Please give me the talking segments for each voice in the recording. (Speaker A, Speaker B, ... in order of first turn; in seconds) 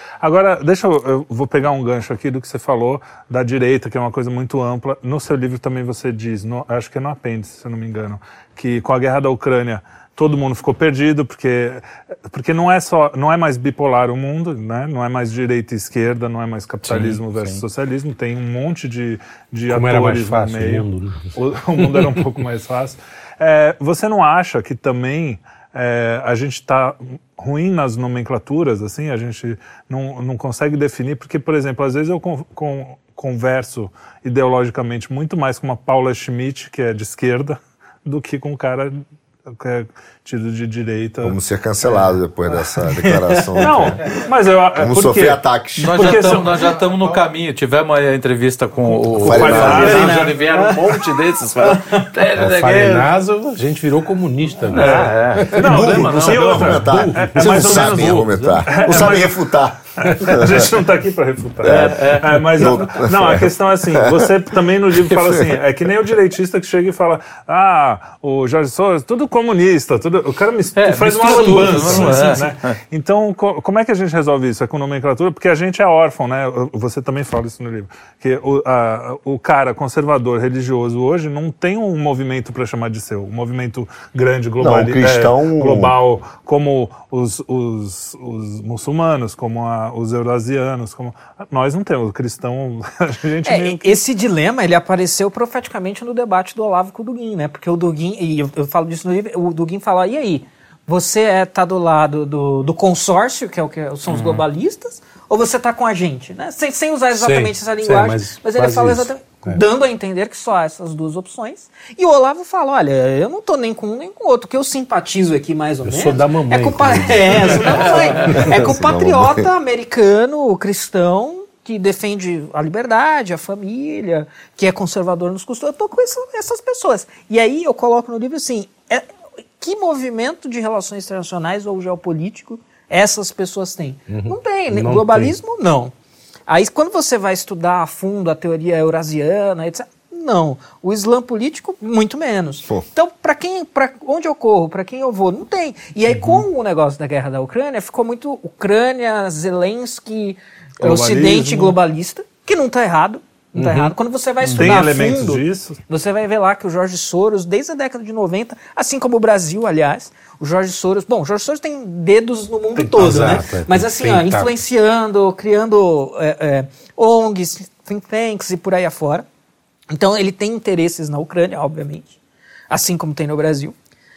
Speaker A: 0.2-41.4, 43.6-47.1, 48.9-50.3, 54.7-59.4, 60.0-94.0, 117.5-117.9, 150.8-151.8, 154.5-155.8
Speaker B: 16.9-17.6, 45.8-53.6, 54.7-58.9, 61.6-62.8, 70.8-72.8, 104.1-104.4, 154.4-154.7
Speaker C: 19.7-21.2, 52.3-58.3, 107.1-109.6, 115.8-118.7, 134.1-135.3, 146.2-146.4, 153.6-153.9, 162.8-164.5
Speaker D: 41.2-44.1, 44.8-46.4, 49.2-50.2, 55.6-60.7, 61.6-64.3, 64.9-65.5, 84.6-85.9, 118.3-119.5
Speaker E: 49.6-52.1, 71.2-72.4, 93.4-129.1, 129.6-135.9, 136.5-169.2, 169.9-172.2, 172.7-173.7